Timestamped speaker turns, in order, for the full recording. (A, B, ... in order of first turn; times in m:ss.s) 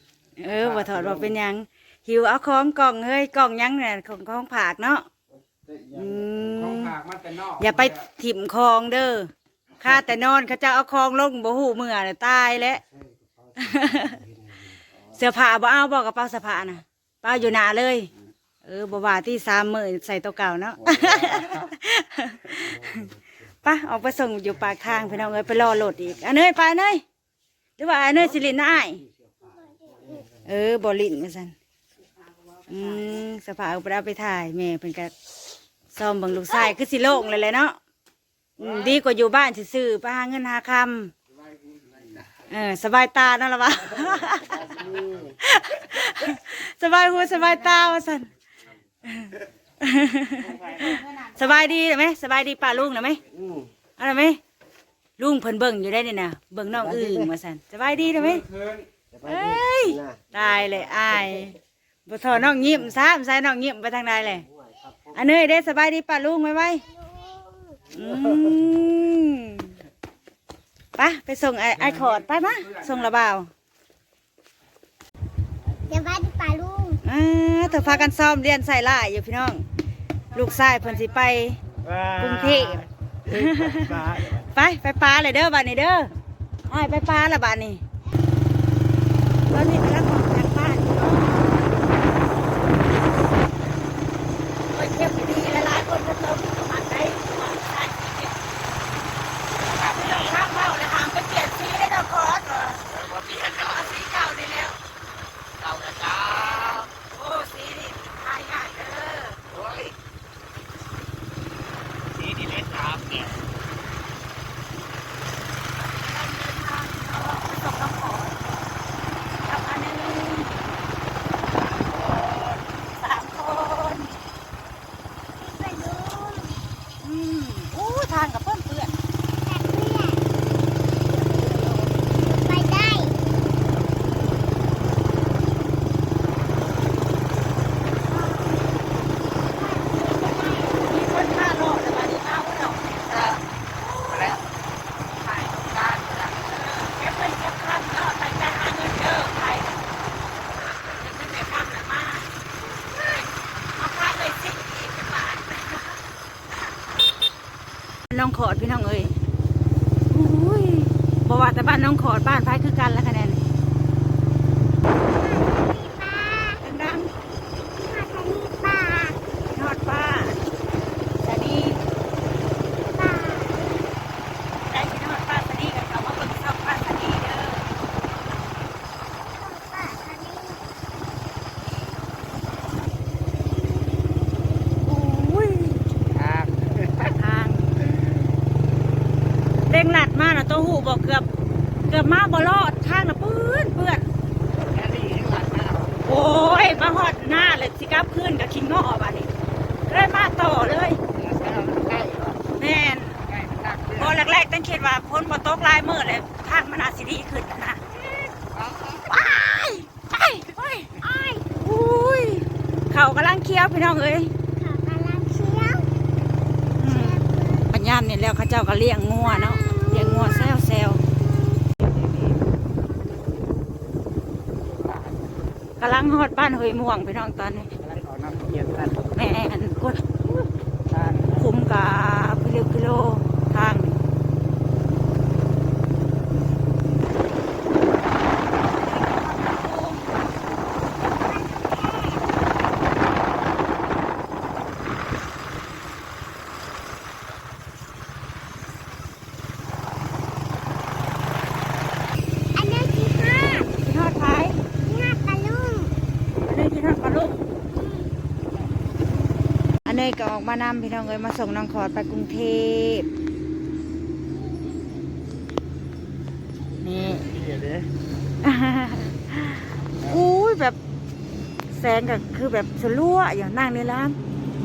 0:00.4-0:05.1 A
0:05.7-0:12.8 A
0:13.6-0:14.2 A
0:15.1-0:18.1 A
0:18.6-0:23.1 A
0:23.6-0:27.0 A
0:27.8-0:29.0 A
0:30.4-0:31.5 A
0:32.7-0:35.1 A
0:35.9-0:37.8 A
0:38.6-0:41.1 A
0:42.5-0:48.3 A
0:49.0-0:53.2 A
0:54.0-0:54.4 A
0:55.2-1:04.5 A
1:05.1-1:06.8 A
1:07.1-1:07.8 B
1:07.9-1:09.7 A
1:11.0-1:13.5 A
1:15.9-1:17.0 B
1:17.0-1:19.6 A
1:20.3-1:26.1 A
1:26.7-1:27.8 A
1:29.5-1:31.7 A
1:34.7-1:38.4 A
1:39.7-1:44.8 A
1:45.6-1:49.8 A
1:52.2-1:53.2 C
1:55.8-1:58.4 A
1:59.4-2:00.6 A
2:01.9-2:04.2 A
2:05.4-2:06.5 B
2:07.0-2:08.9 A
2:09.4-2:10.2 B
2:12.3-2:13.2 B
2:19.9-2:24.4 A
2:25.3-2:29.8 A
2:30.6-2:32.3 A
2:32.9-2:35.9 A
2:38.1-2:39.2 A
2:40.1-2:43.4 A
2:45.2-2:46.6 B
2:46.6-2:47.1 A
2:47.9-2:49.2 B
2:49.5-2:50.4 A
2:51.2-2:51.8 A
2:52.9-2:53.7 B
2:54.6-2:57.6 A
2:59.4-3:00.7 B
3:04.8-3:05.8 A
3:06.2-3:06.7 C
3:07.0-3:08.0 A
3:09.7-3:11.3 A
3:11.9-3:14.1 A
3:14.7-3:15.9 C
3:16.0-3:19.3 A
3:19.9-3:21.0 A
3:21.2-3:22.4 C
3:22.6-3:23.2 A
3:23.4-3:23.8 C
3:23.8-3:27.8 A
3:28.9-3:34.3 A
3:31.0-3:31.5 B
3:34.6-3:36.0 B
3:36.8-3:41.0 A
3:36.9-3:37.7 B
3:39.4-3:40.5 B
3:45.8-3:47.7 A
3:47.8-3:49.0 C
3:49.1-3:50.0 A
3:50.9-3:51.2 C
3:51.3-3:54.0 A
3:59.1-4:00.0 A
4:01.3-4:02.3 B
4:12.6-4:13.7 B
4:13.8-4:14.6 A
4:14.8-4:16.0 B
4:16.4-4:17.4 A
4:19.9-4:23.1 A
4:26.8-4:27.4 A
4:28.4-4:30.8 A
4:31.7-4:34.2 A